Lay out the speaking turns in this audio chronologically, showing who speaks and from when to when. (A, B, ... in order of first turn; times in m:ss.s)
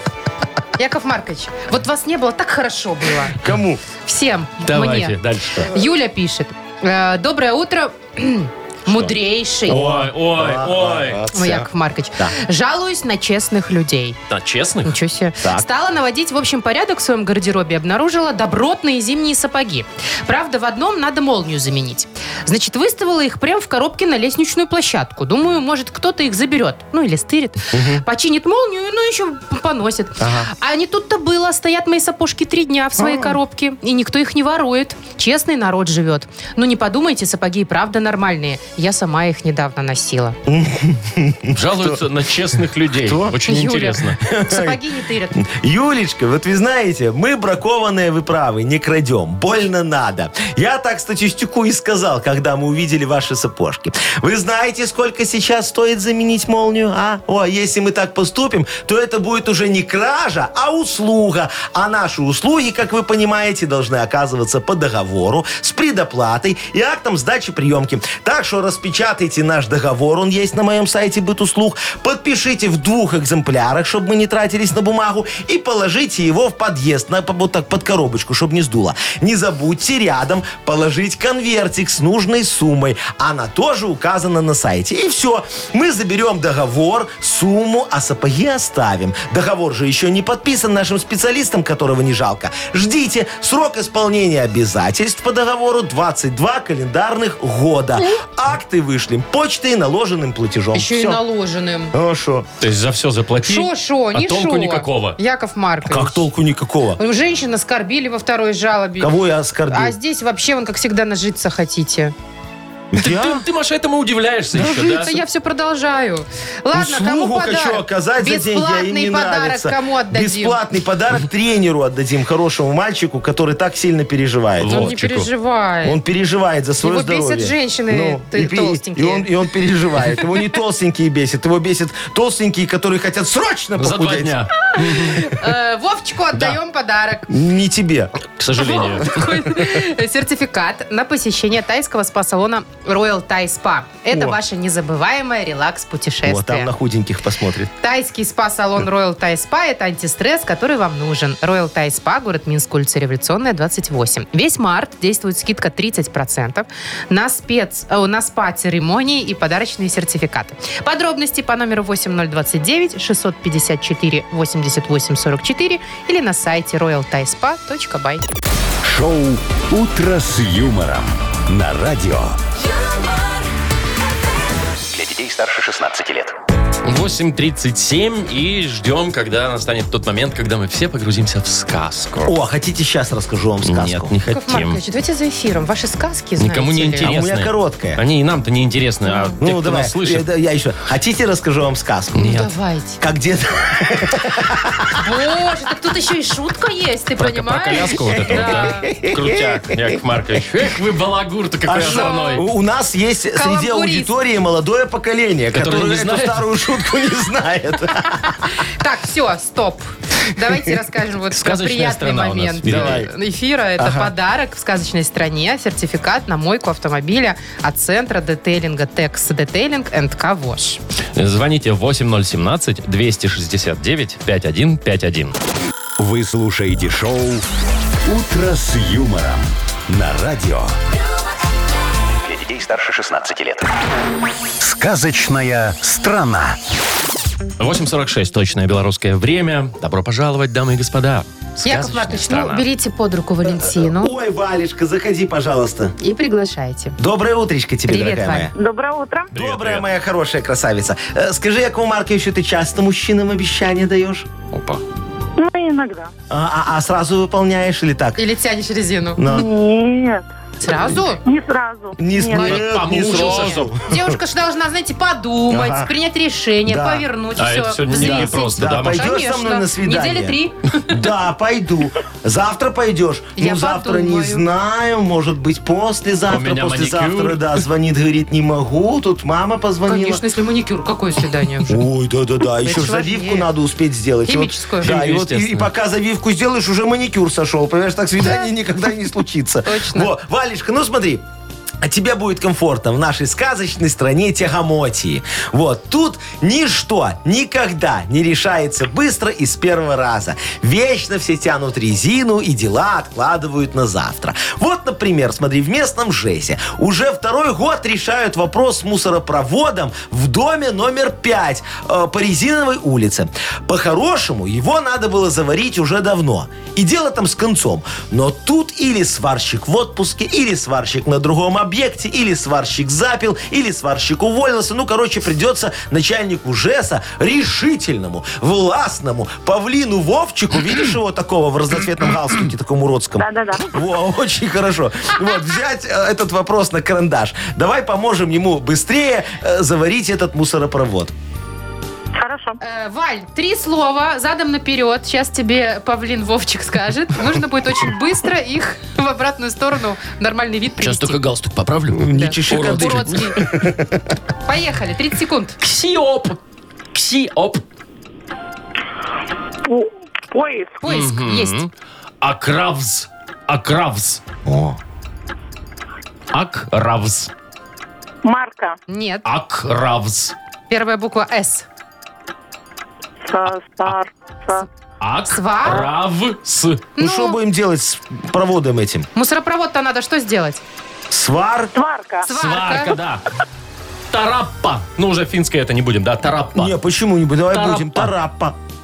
0:00.8-0:03.4 A
0:03.4-0:03.8 B
0:04.0-0:09.8 A
0:04.6-0:05.7 C
0:09.6-0:11.2 C
0:09.7-0:12.3 B
0:11.3-0:14.2 A
0:14.3-0:14.9 C
0:14.8-0:40.4 A
0:15.4-0:15.7 B
0:27.7-0:28.0 B
0:30.2-0:30.5 B
0:33.0-0:33.4 B
0:40.4-0:42.0 B
0:41.5-0:44.2 C
0:42.9-0:43.4 B
0:43.4-0:45.4 A
0:44.2-0:44.8 B
0:45.3-1:41.2 B
1:40.7-1:41.9 A
1:41.9-1:42.5 B
1:42.6-1:45.2 C
1:43.4-1:46.2 A
1:45.8-1:47.0 B
1:47.0-1:49.1 A
1:49.0-1:50.0 B
1:49.7-1:52.1 A
1:52.9-1:53.4 B
1:53.0-1:55.1 C
1:54.6-1:55.0 B
1:54.6-2:00.6 A
1:56.7-2:04.9 B
2:04.6-2:05.3 C
2:04.6-2:06.0 A
2:05.8-2:14.4 B
2:06.8-2:09.3 A
2:13.8-2:15.3 C
2:14.7-2:17.3 A
2:17.3-2:18.1 B
2:18.4-2:19.2 C
2:18.6-2:26.7 A
2:24.1-2:24.4 B
2:26.2-2:27.7 B
2:27.8-2:48.2 A
2:48.8-2:52.4 D
2:54.9-2:56.3 E
2:56.8-3:02.3 C
3:02.2-3:04.1 B
3:03.6-3:04.8 C
3:04.3-3:07.1 A
3:06.4-3:10.2 C
3:07.0-3:08.0 B
3:09.1-3:09.3 A
3:09.4-3:12.4 B
3:12.2-3:12.5 C
3:12.2-3:13.0 A
3:13.0-3:15.1 B
3:15.0-3:18.9 A
3:17.2-3:22.4 C
3:18.1-3:19.9 B
3:21.7-3:28.5 B
3:21.8-3:22.5 A
3:23.3-3:24.1 A
3:25.5-3:26.4 C
3:28.3-3:40.8 A
3:31.3-3:33.0 C
3:32.6-3:33.1 B
3:33.8-3:34.1 B
3:41.1-3:45.3 C
3:46.0-3:47.4 D
3:48.0-3:50.7 D
3:52.2-3:53.7 E
3:54.6-3:56.6 D
3:57.6-4:02.6 C
4:01.6-4:04.1 A
4:03.6-4:05.9 B
4:06.0-4:07.0 A
4:07.0-4:08.5 B
4:07.9-4:08.5 A
4:08.5-4:09.3 F
4:09.3-4:09.8 C
4:09.3-4:14.3 B
4:14.5-4:14.8 C
4:15.4-4:16.1 F
4:16.3-4:18.2 B
4:18.2-4:19.3 A
4:19.2-4:19.5 B
4:19.3-4:20.2 F
4:20.6-4:21.2 A
4:21.2-4:22.6 F
4:22.0-4:24.2 B
4:22.3-4:23.7 C
4:22.8-4:30.9 A
4:25.5-4:25.9 B
4:26.6-4:27.0 B
4:27.4-4:29.1 C
4:27.9-4:40.2 B
4:33.4-4:34.4 A
4:36.3-4:37.5 C
4:39.8-4:41.8 A
4:41.6-4:51.2 B
4:42.6-4:43.5 A
4:44.2-4:44.9 A
4:44.8-4:45.7 C
4:49.6-4:50.1 A
4:51.8-5:41.1 B
5:33.2-5:33.7 F
5:42.2-5:42.6 F
5:42.6-5:51.2 A
5:50.8-5:53.6 C
5:51.9-5:54.0 B
5:52.1-5:53.4 A
5:54.4-5:55.6 A
5:55.6-5:56.4 C
5:56.9-5:57.6 C
5:59.6-6:00.8 F
6:00.8-6:01.6 A
6:00.9-6:01.7 C
6:02.2-6:04.2 C
6:04.4-6:04.8 B
6:06.3-6:07.3 C
6:08.2-6:08.7 F
6:08.9-6:09.2 A
6:09.2-6:10.3 C
6:10.7-6:11.6 A
6:13.2-6:14.6 F
6:15.0-6:16.9 C
6:15.3-6:15.9 A
6:17.0-6:17.4 A
6:17.0-6:19.1 B
6:19.1-6:20.6 A
6:21.1-6:21.7 B
6:21.7-6:22.3 F
6:22.2-6:23.0 A
6:22.3-6:23.2 C
6:24.1-6:26.7 C
6:26.5-6:28.6 B
6:27.5-6:28.1 C